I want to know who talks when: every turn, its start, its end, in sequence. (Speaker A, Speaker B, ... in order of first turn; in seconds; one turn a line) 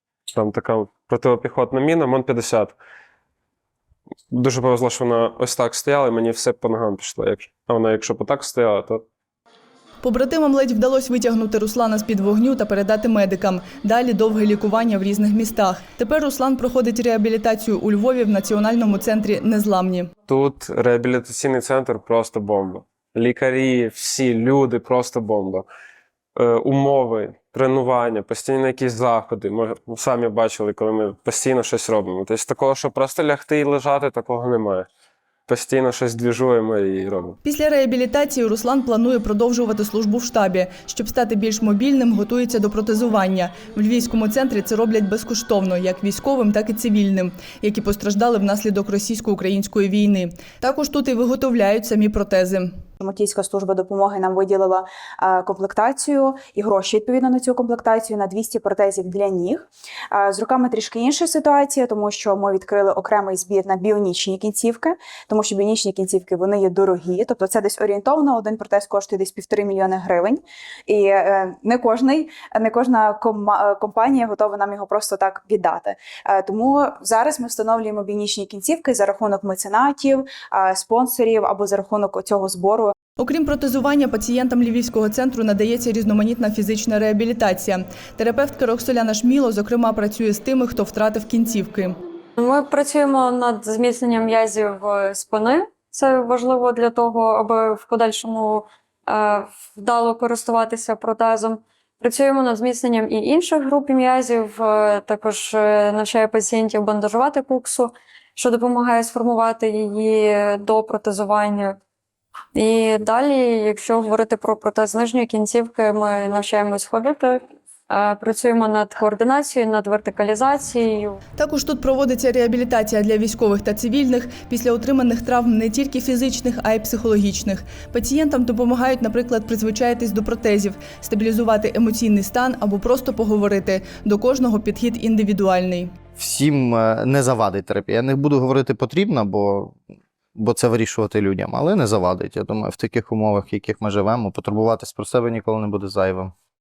Speaker A: 0.3-2.8
Speaker A: 4.3-9.1
Speaker B: 10.0-20.1
Speaker A: 20.3-25.7
Speaker A: 26.4-34.9
Speaker A: 35.5-37.4
Speaker B: 37.4-52.7
Speaker C: 53.0-82.9
Speaker B: 83.2-92.0
Speaker D: 92.4-111.8
Speaker D: 112.5-121.2
Speaker B: 121.4-135.9
Speaker E: 136.2-139.8
Speaker E: 140.3-146.3